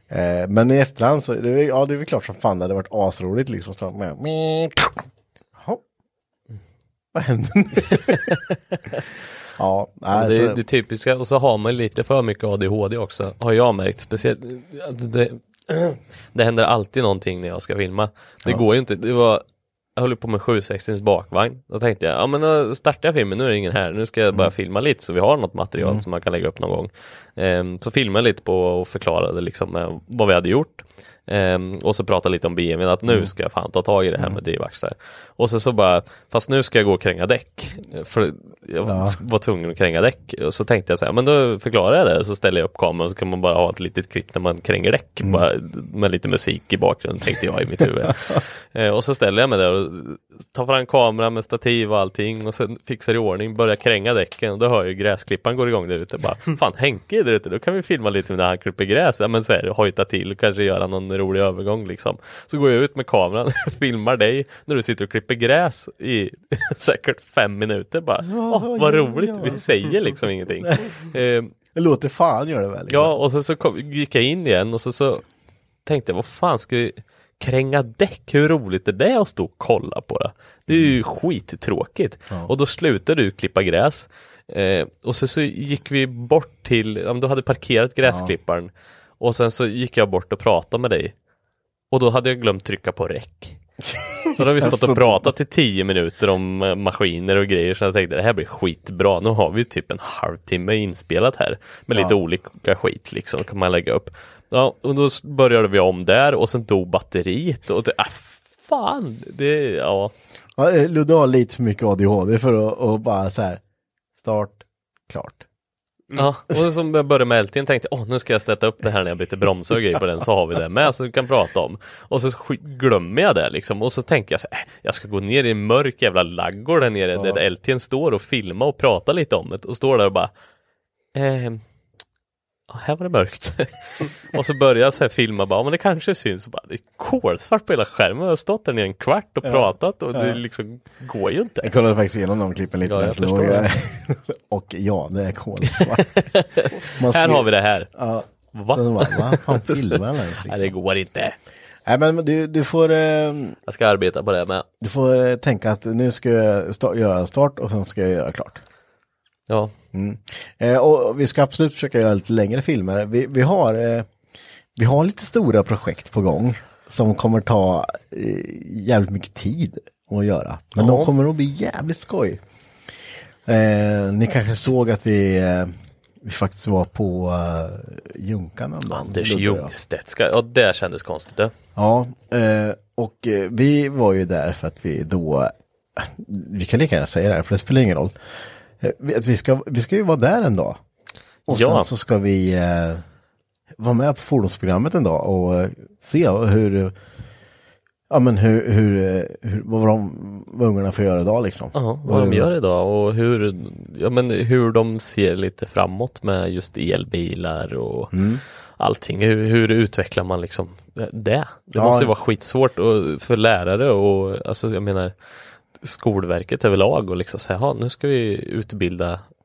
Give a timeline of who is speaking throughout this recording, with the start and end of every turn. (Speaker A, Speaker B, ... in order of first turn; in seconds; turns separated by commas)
Speaker A: 0.1-5.0, Speaker A: 5.5-5.8, Speaker A: 7.1-8.4, Speaker B: 8.1-8.4, Speaker A: 9.6-10.6, Speaker B: 10.1-19.4, Speaker B: 19.9-71.5, Speaker A: 25.8-26.0, Speaker A: 33.1-33.3, Speaker A: 38.8-39.2, Speaker A: 48.0-48.4, Speaker A: 68.2-70.0, Speaker A: 70.7-70.9, Speaker A: 71.7-73.1, Speaker B: 72.9-75.2, Speaker B: 75.8-91.1, Speaker A: 80.7-81.0, Speaker A: 88.0-88.3, Speaker B: 91.9-93.6, Speaker A: 93.8-95.3, Speaker B: 94.3-110.1, Speaker A: 110.6-113.6, Speaker A: 114.2-115.4, Speaker B: 116.1-130.3, Speaker A: 127.1-127.4, Speaker B: 131.1-131.6, Speaker B: 132.7-141.7, Speaker A: 139.4-140.4, Speaker A: 141.6-146.2, Speaker B: 142.8-143.7, Speaker B: 145.7-147.9, Speaker A: 146.9-150.7, Speaker B: 148.5-151.3, Speaker A: 151.8-153.6, Speaker B: 153.7-154.6, Speaker A: 154.8-158.6, Speaker B: 159.5-159.7, Speaker A: 159.9-164.1, Speaker A: 164.8-172.4, Speaker B: 170.8-171.1, Speaker A: 173.4-179.7, Speaker B: 178.9-181.5, Speaker A: 181.7-188.2, Speaker A: 188.8-190.8, Speaker A: 191.5-193.0, Speaker B: 191.5-191.9, Speaker A: 193.8-196.9, Speaker A: 198.1-202.5, Speaker B: 201.7-208.1, Speaker A: 208.1-208.4, Speaker B: 208.8-215.1, Speaker A: 211.7-212.1, Speaker B: 215.8-219.2